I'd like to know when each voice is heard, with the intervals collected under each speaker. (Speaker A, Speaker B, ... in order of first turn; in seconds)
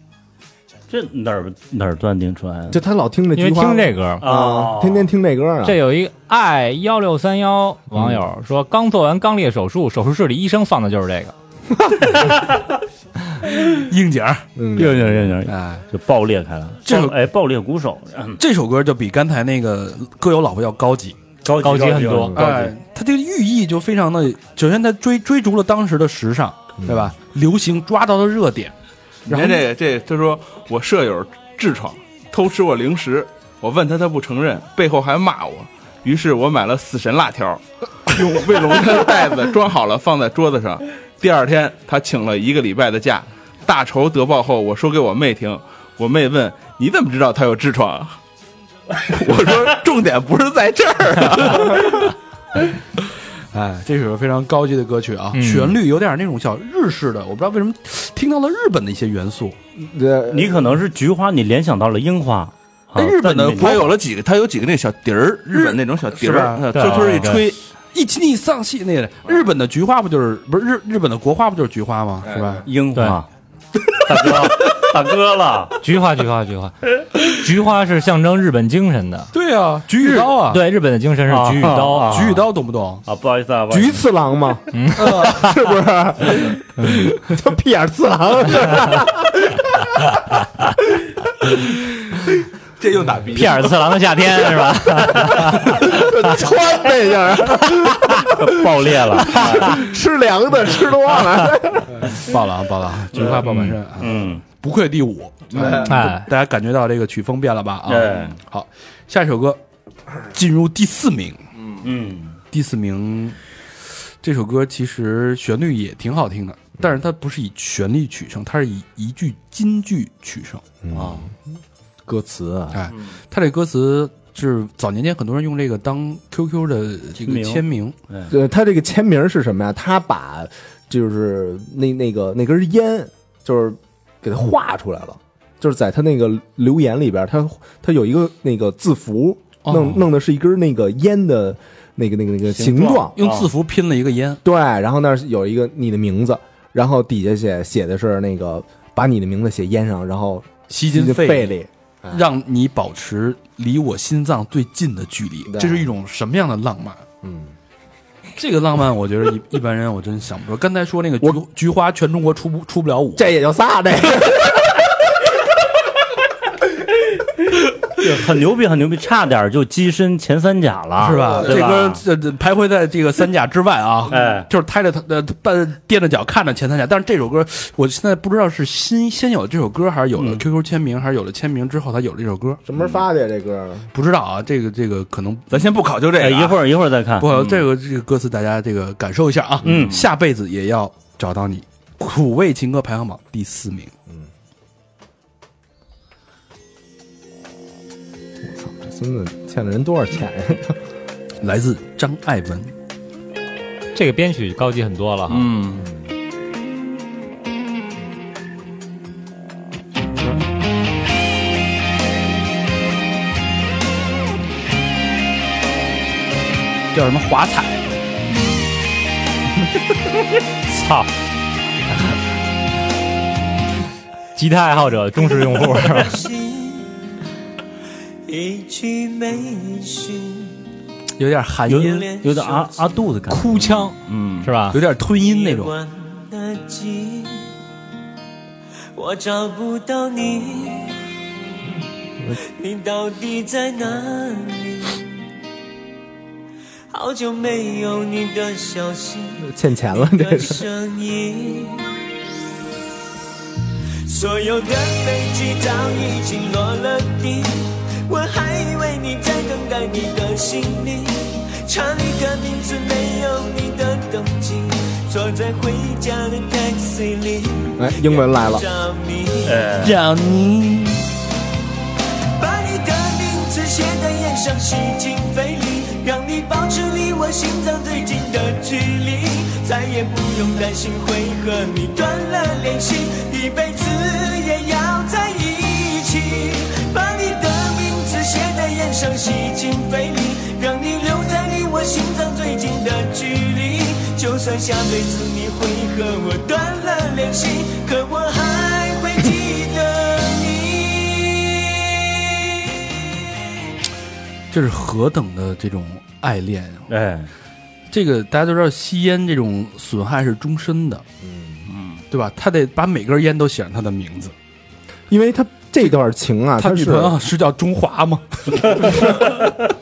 Speaker A: 0.9-2.8, 4.2-5.1, 14.8-18.4, 21.4-22.7, 60.3-63.9, 72.7-73.3, 74.0-75.8, 81.3-82.5, 83.0-84.0, 98.3-99.8, 103.1-104.4, 107.9-108.4, 111.8-112.4, 120.9-121.2, 127.2-128.3, 142.7-143.5, 168.0-172.0, 174.1-174.5, 180.2-180.4, 186.2-187.7, 189.6-190.0, 231.7-234.2, 269.5-270.0, 306.9-307.3
Speaker B: 2.7-5.8, 7.9-8.2, 14.6-15.3, 26.8-27.1, 59.8-60.6, 83.7-90.1, 95.7-102.1, 120.8-121.3, 122.1-122.8, 128.3-143.2, 144.4-152.3, 155.5-155.9, 157.2-157.5, 163.2-164.8, 182.7-183.9, 198.4-200.8, 249.4-250.6, 267.8-268.6, 311.2-311.6, 315.1-317.2
Speaker C: 3.4-4.2, 5.6-11.3, 21.6-22.4, 55.3-55.8, 66.7-67.4, 75.8-79.3, 80.1-82.2, 84.7-85.5, 86.8-87.1, 93.3-96.3, 105.9-106.3, 203.9-205.5, 220.7-221.1, 224.4-226.2, 233.3-234.8
Speaker D: 13.7-14.5, 15.5-15.8, 16.9-17.2, 18.4-21.2, 22.4-28.7, 29.3-29.7, 53.5-59.6, 63.0-64.0, 65.5-67.2, 67.9-72.7, 79.3-80.6, 81.9-83.0, 85.0-85.3, 102.0-109.6, 110.3-111.4, 112.5-113.4, 114.2-120.6, 122.7-128.0, 139.7-140.1, 142.6-144.4, 150.7-151.5, 152.1-157.0, 158.4-163.3, 171.0-182.6, 183.9-185.7, 187.2-193.9, 201.4-202.7, 216.9-217.8, 231.2-232.1, 234.7-235.7, 269.8-271.0, 304.5-306.9, 307.9-311.0, 312.1-314.3, 316.6-319.2
Speaker E: 29.3-48.2, 49.0-52.1, 63.6-67.6, 92.8-93.8, 185.5-186.6, 189.7-190.0, 205.3-205.9, 234.2-234.5
Speaker F: 225.6-227.1, 228.3-230.7, 231.8-233.0, 235.1-237.6, 238.9-241.0, 242.3-245.1, 246.9-252.0, 254.1-269.7, 272.4-302.2